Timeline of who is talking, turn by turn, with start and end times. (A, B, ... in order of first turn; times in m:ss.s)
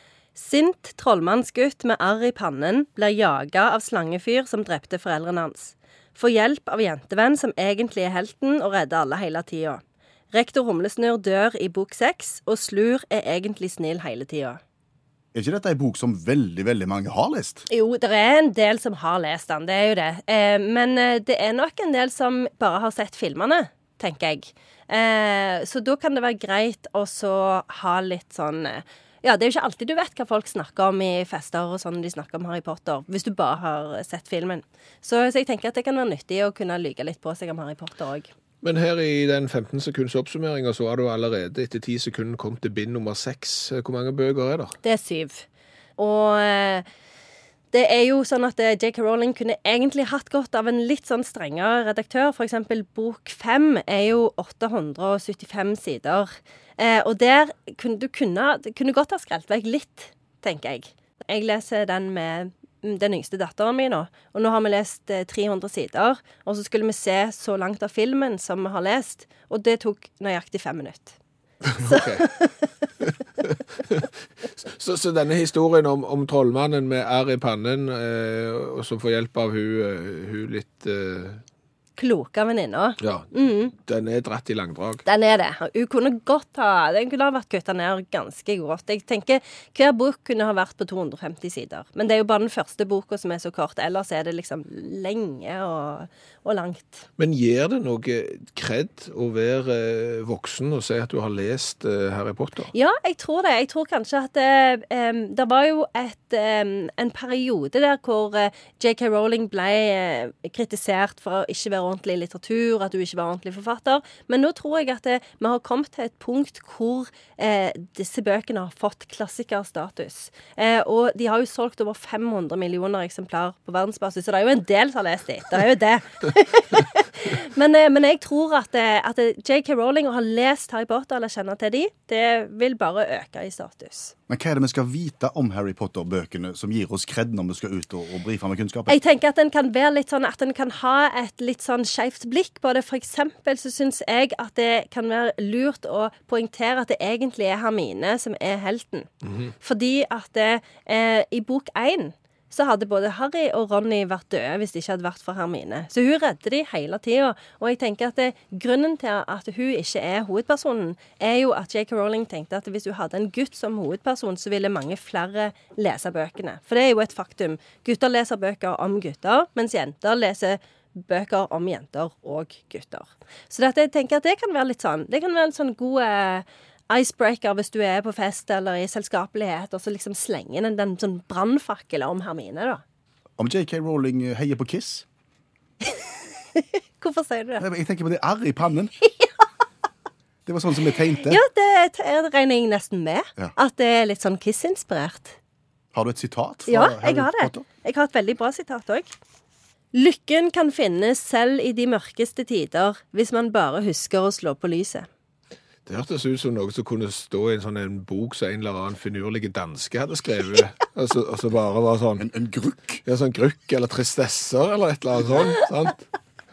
0:00.3-0:09.8 A
0:10.3-0:14.6 A
0:15.3-0:17.6 B
0:17.7-0:38.3 A
0:38.6-0:44.7 C
0:44.8-0:45.4 A
0:46.0-0:46.8 A
0:47.7-1:11.2 A
1:11.7-1:12.4 C
1:11.9-1:12.5 A
1:13.0-1:21.4 C
1:22.0-1:23.7 A
1:23.0-1:25.0 C
1:25.0-1:37.1 A
1:37.2-1:42.7 C
1:42.7-2:14.1 A
2:14.3-2:18.9 B
2:18.9-3:02.8 A
3:03.4-3:05.0 B
3:06.5-3:07.6 A
3:07.6-3:08.9 B
3:10.4-3:11.4 B
3:11.1-3:15.4 A
3:15.9-3:17.6 B
3:16.7-3:19.1 A
3:19.9-3:25.1 A
3:25.8-3:32.2 C
3:32.2-3:33.0 B
3:33.0-3:36.0 C